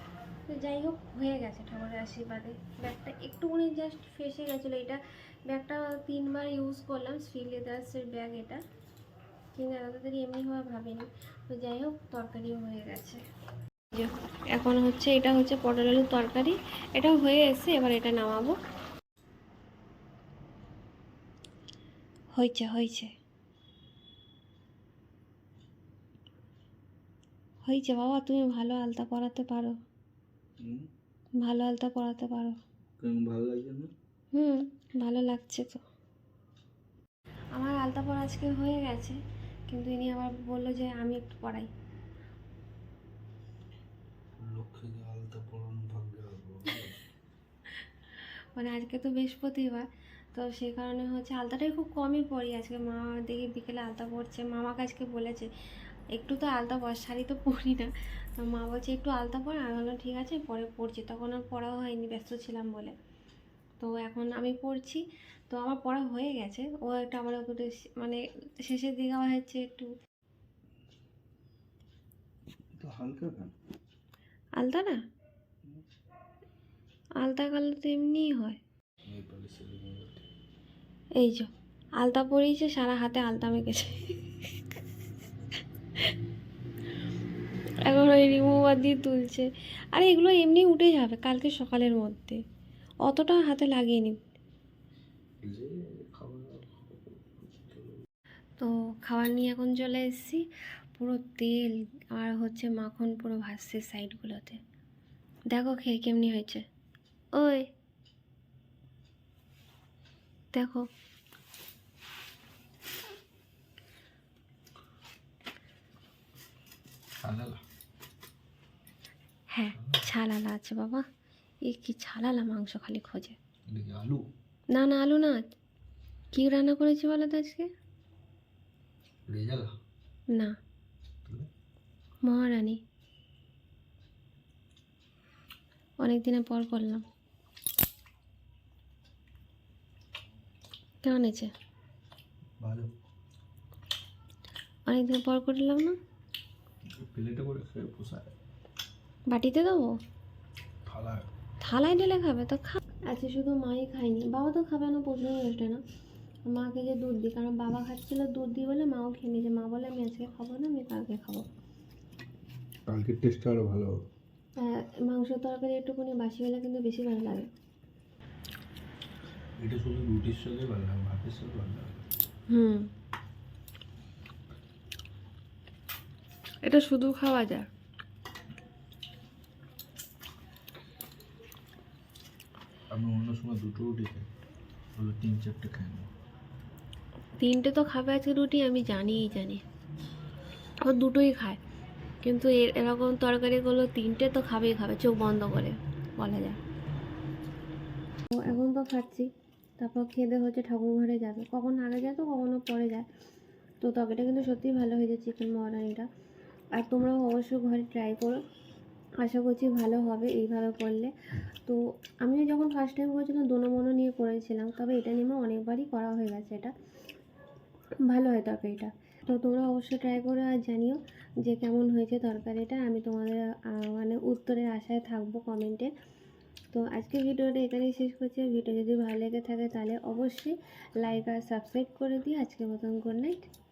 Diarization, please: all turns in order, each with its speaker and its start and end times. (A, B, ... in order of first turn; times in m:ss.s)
0:00.5-0:08.6 A
0:09.5-0:13.2 A
0:13.9-0:18.5 A
0:22.4-0:23.1 A
0:27.6-0:29.7 A
0:31.4-0:32.6 A
0:33.0-0:33.9 B
0:34.3-0:35.8 A
0:37.5-0:39.2 A
0:39.7-0:41.7 A
0:44.4-0:47.0 B
0:48.6-0:55.5 A
0:56.1-1:02.9 A
1:03.8-1:09.9 A
1:12.8-1:13.5 B
1:14.6-1:15.0 A
1:17.2-1:18.6 A
1:19.1-1:20.3 B
1:21.2-1:21.5 A
1:22.0-1:24.6 A
1:27.8-1:32.4 A
1:33.0-1:34.2 A
1:35.4-1:38.0 B
1:38.6-1:40.4 A
1:41.0-1:44.6 A
1:45.5-1:46.6 A
1:47.4-1:47.6 A
1:50.5-1:50.8 A
1:57.2-1:57.6 B
1:59.5-2:01.0 A
1:59.8-2:00.1 B
2:01.7-2:03.4 A
2:03.7-2:04.2 B
2:04.7-2:05.4 A
2:06.3-2:07.7 A
2:09.3-2:09.7 B
2:11.2-2:11.5 B
2:12.2-2:12.8 A
2:16.0-2:17.0 A
2:21.0-2:21.5 A
2:22.6-2:22.9 B
2:24.9-2:25.9 A
2:26.9-2:28.3 B
2:29.3-2:30.0 A
2:30.9-2:31.3 B
2:31.6-2:35.8 A
2:36.5-2:41.4 A
2:42.9-2:44.0 B
2:44.6-2:47.5 A
2:49.6-2:52.0 B
2:52.5-2:52.9 A
2:56.6-2:57.7 A
3:02.9-3:04.3 B
3:05.0-3:06.1 B
3:07.4-3:09.6 A
3:10.8-3:11.6 A
3:12.2-3:16.6 A
3:18.3-3:23.1 A
3:23.8-3:26.1 A
3:26.7-3:28.4 A
3:29.2-3:31.1 A
3:31.6-3:36.7 A
3:38.1-3:45.9 A
3:46.7-3:53.4 A